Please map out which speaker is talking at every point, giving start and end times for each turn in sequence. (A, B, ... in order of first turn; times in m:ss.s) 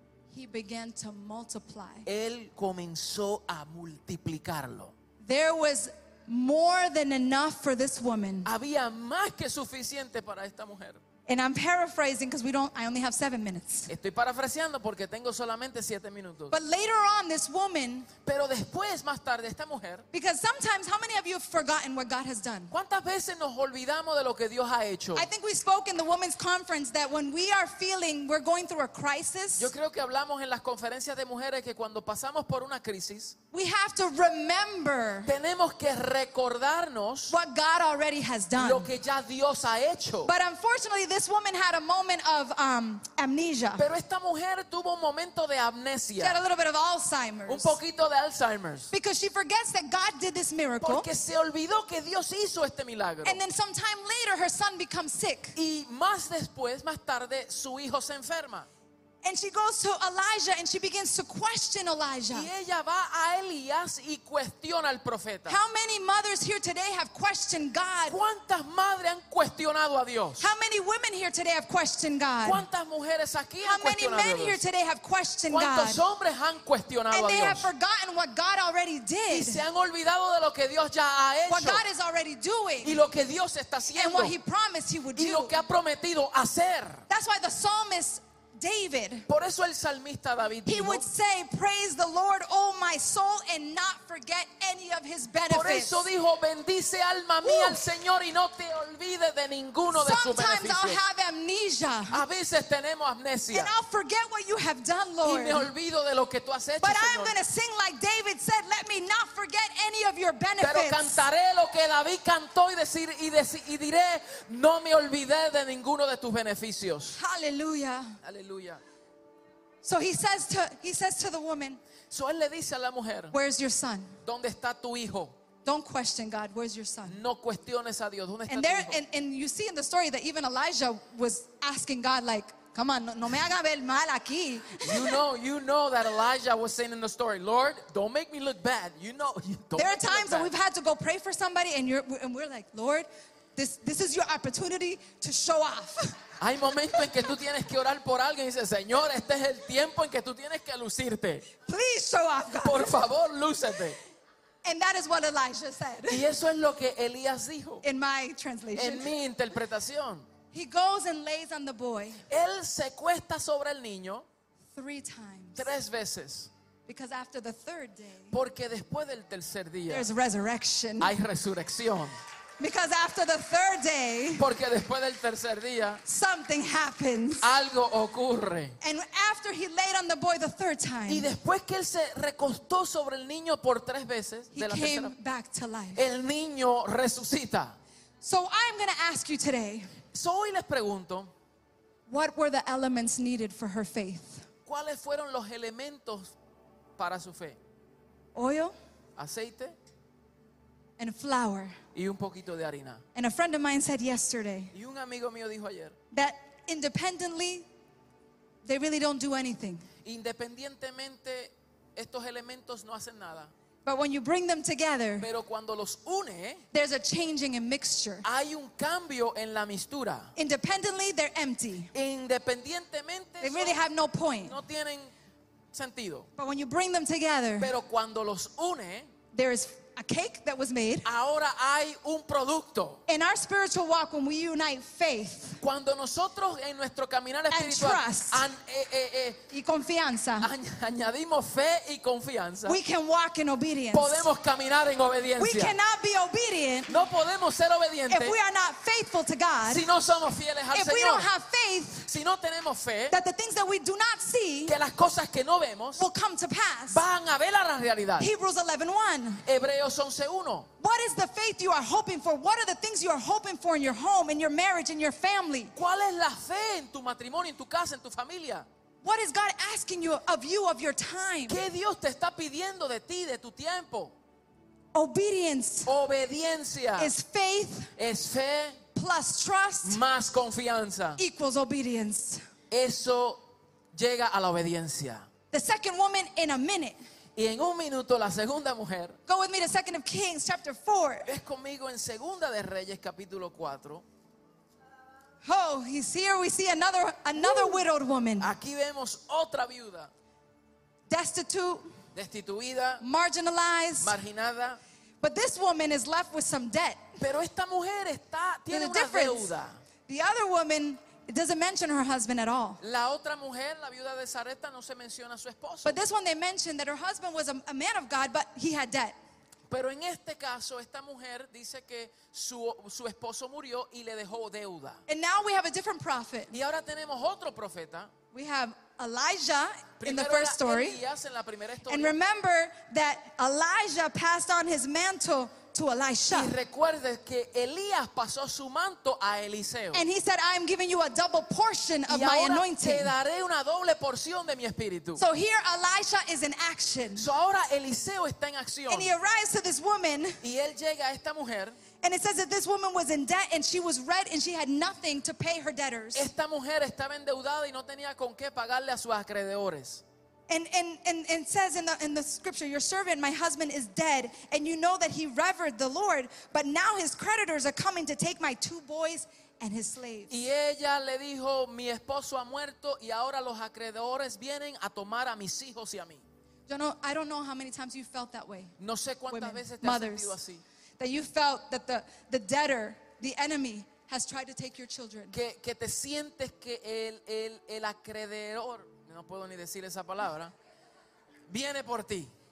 0:00.3-0:02.1 A
0:02.0-0:04.9 B
0:05.2-0:08.5 A
0:08.4-0:11.0 B
0:11.3-0:13.9 A
0:13.9-0:16.6 B
0:16.5-0:18.1 A
0:18.2-0:20.0 B
0:20.1-0:22.7 A
0:22.7-0:25.3 B
0:25.1-0:29.7 A
0:29.6-0:33.4 B
0:33.5-0:35.3 A
0:35.2-0:37.3 B
0:37.3-0:38.9 A
0:38.6-0:40.3 B
0:40.2-0:43.8 A
0:43.7-0:46.4 B
0:46.2-0:47.8 A
0:47.5-0:48.9 B
0:48.9-0:51.1 A
0:50.8-0:53.4 B
0:53.2-0:55.6 A
0:55.6-0:58.7 B
0:59.2-1:02.5 A
1:02.3-1:05.6 B
1:05.5-1:08.2 A
1:08.1-1:10.4 B
1:10.4-1:12.6 A
1:12.4-1:14.6 B
1:13.6-1:16.0 A
1:15.5-1:17.7 B
1:17.1-1:19.6 A
1:19.3-1:21.8 B
1:21.5-1:23.0 A
1:22.8-1:24.4 B
1:23.9-1:25.6 A
1:25.1-1:27.0 B
1:27.1-1:29.3 A
1:29.3-1:31.0 B
1:30.6-1:36.1 A
1:35.5-1:41.0 B
1:37.4-1:37.8 A
1:39.9-1:42.2 A
1:42.1-1:43.7 B
1:43.5-1:45.7 A
1:45.2-1:47.4 B
1:46.8-1:51.2 A
1:50.6-1:57.2 B
1:57.1-1:58.2 A
1:58.2-1:58.8 B
1:59.8-2:01.8 A
2:02.1-2:03.3 B
2:03.3-2:04.2 A
2:04.2-2:05.4 B
2:05.6-2:07.2 A
2:07.0-2:09.0 B
2:08.5-2:15.2 A
2:14.8-2:20.5 B
2:19.7-2:26.2 A
2:26.4-2:31.5 B
2:31.6-2:32.9 A
2:32.5-2:34.0 B
2:34.6-2:36.3 A
2:36.1-2:37.8 B
2:37.8-2:39.1 A
2:38.7-2:40.3 B
2:40.5-2:42.2 A
2:42.3-2:44.2 B
2:44.7-2:45.7 A
2:45.5-2:46.5 B
2:46.9-2:48.4 A
2:48.3-2:50.1 B
2:49.9-2:51.1 A
2:51.0-2:52.2 B
2:52.6-2:54.4 A
2:54.4-2:56.0 B
2:56.0-2:57.5 A
2:57.4-2:58.8 B
2:58.8-3:01.3 A
3:01.1-3:05.1 B
3:04.5-3:06.0 A
3:05.9-3:07.8 B
3:08.2-3:10.0 A
3:10.1-3:11.3 B
3:12.1-3:14.4 A
3:14.6-3:16.3 B
3:17.0-3:17.6 B
3:18.3-3:18.7 A
3:19.2-3:19.8 B
3:21.0-3:21.8 A
3:21.9-3:23.0 B
3:23.1-3:24.7 A
3:24.7-3:26.0 B
3:26.1-3:27.6 A
3:28.6-3:29.9 A
3:30.0-3:33.5 B
3:33.8-3:35.3 A
3:35.2-3:36.6 B
3:36.7-3:38.2 A
3:38.2-3:40.3 B
3:40.4-3:41.9 A
3:41.9-3:43.8 B
3:43.4-3:44.6 A
3:44.4-3:45.1 B
3:45.7-3:46.3 B
3:46.4-3:47.7 A
3:47.6-3:49.1 B
3:49.3-3:51.1 A
3:51.0-3:53.0 B
3:53.1-3:55.6 A
3:55.6-3:59.4 B
3:57.5-3:58.4 A
3:59.5-4:00.5 A
4:00.4-4:02.8 B
4:02.6-4:04.3 A
4:03.9-4:05.8 B
4:05.4-4:07.0 A
4:06.9-4:08.4 B
4:08.1-4:09.8 A
4:09.6-4:11.3 B
4:10.7-4:12.1 A
4:12.1-4:13.2 B
4:13.1-4:14.8 A
4:14.6-4:16.0 B
4:16.0-4:17.0 A
4:16.9-4:18.3 B
4:18.2-4:19.4 A
4:19.4-4:20.7 B
4:20.8-4:25.7 A
4:25.7-4:28.7 B
4:29.0-4:31.6 A
4:31.5-4:34.2 B
4:34.9-4:35.9 A
4:35.8-4:37.1 B
4:37.0-4:37.9 A
4:38.0-4:38.8 B
4:38.9-4:40.0 A
4:39.8-4:41.2 B
4:41.2-4:42.4 A
4:42.7-4:45.3 B
4:45.5-4:47.0 A
4:47.4-4:49.2 B
4:49.3-4:51.3 A
4:51.2-4:54.0 B
4:55.4-4:58.5 A
4:57.3-4:57.8 B
4:58.4-5:00.1 B
5:01.1-5:01.9 A
5:02.1-5:03.0 B
5:03.0-5:04.1 A
5:04.0-5:04.8 B
5:05.2-5:07.2 A
5:07.2-5:09.8 B
5:08.7-5:09.5 A
5:10.1-5:12.8 A
5:12.8-5:16.0 B
5:15.8-5:19.2 A
5:19.7-5:25.0 B
5:25.1-5:26.5 A
5:26.5-5:28.1 B
5:28.3-5:31.0 A
5:30.0-5:32.1 B
5:31.9-5:36.5 A
5:36.3-5:40.0 B
5:39.9-5:43.1 A
5:42.1-5:45.2 B
5:45.2-5:47.3 A
5:47.2-5:49.1 B
5:48.9-5:50.4 A
5:50.4-5:51.8 B
5:52.0-5:56.3 A
5:56.1-6:00.0 B
6:00.5-6:10.4 A
6:10.3-6:16.2 B
6:16.7-6:18.7 A
6:18.8-6:20.6 B
6:19.3-6:20.4 A
6:21.0-6:25.3 A
6:25.3-6:30.5 B
6:31.5-6:32.3 B